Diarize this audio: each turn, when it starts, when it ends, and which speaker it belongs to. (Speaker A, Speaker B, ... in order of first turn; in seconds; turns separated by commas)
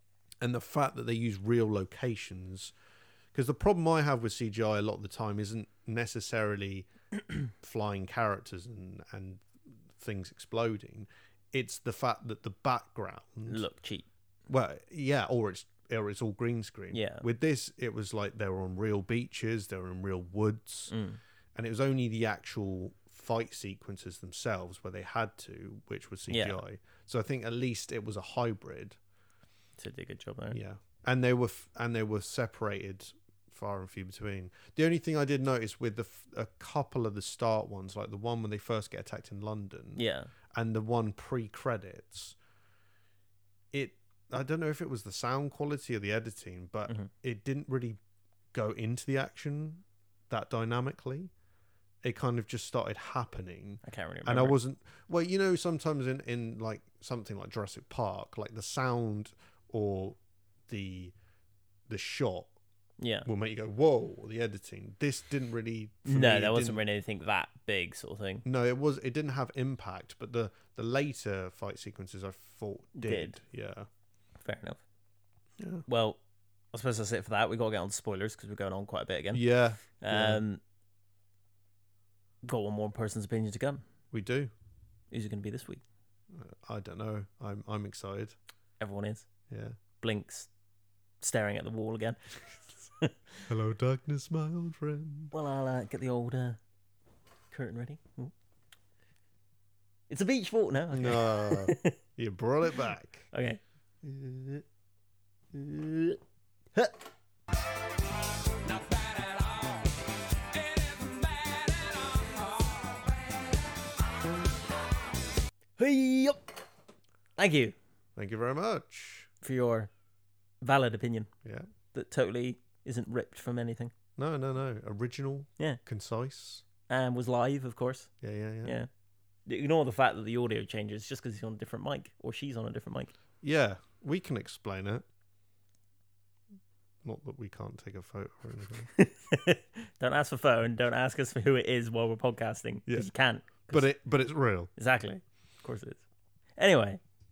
Speaker A: 0.4-2.7, Speaker A: 3.3-6.9, Speaker A: 7.6-13.6, Speaker B: 13.5-14.1, Speaker A: 14.5-20.9, Speaker B: 16.9-17.2, Speaker B: 20.9-21.2, Speaker A: 21.5-29.0, Speaker B: 26.3-26.6, Speaker B: 29.8-30.6, Speaker A: 30.5-40.0, Speaker B: 40.0-40.3, Speaker A: 40.5-42.4, Speaker A: 43.7-48.0, Speaker A: 48.5-51.3, Speaker A: 52.0-61.1, Speaker B: 53.8-54.6, Speaker A: 61.9-62.5, Speaker B: 63.0-63.3, Speaker A: 63.2-66.8, Speaker B: 66.0-68.4, Speaker A: 68.4-73.9, Speaker B: 73.0-73.4, Speaker B: 74.4-74.8, Speaker A: 75.6-75.8, Speaker B: 75.9-76.2, Speaker B: 76.7-79.4, Speaker A: 79.3-80.4, Speaker B: 80.0-80.6, Speaker B: 82.4-83.8, Speaker A: 84.1-84.5, Speaker B: 85.1-85.8, Speaker A: 86.3-88.3, Speaker B: 88.8-89.3, Speaker A: 89.5-89.8, Speaker B: 90.0-90.5, Speaker B: 91.2-92.2, Speaker A: 93.5-95.3, Speaker B: 95.3-96.6, Speaker B: 97.5-98.3, Speaker B: 100.1-102.0, Speaker A: 100.9-103.3, Speaker B: 103.3-103.6, Speaker A: 104.0-104.6, Speaker A: 105.5-106.0, Speaker B: 108.8-109.7, Speaker B: 110.8-112.6, Speaker B: 115.8-116.5, Speaker B: 117.4-117.8, Speaker A: 118.2-119.3, Speaker B: 119.4-119.9, Speaker B: 120.6-121.3, Speaker B: 121.9-123.9, Speaker A: 124.2-126.6, Speaker B: 126.9-128.1, Speaker A: 128.2-128.8, Speaker B: 128.6-128.9, Speaker B: 129.5-133.1, Speaker A: 133.4-135.0, Speaker A: 137.0-138.9, Speaker B: 138.9-143.9, Speaker A: 143.7-144.7, Speaker B: 144.8-146.0, Speaker B: 146.6-147.0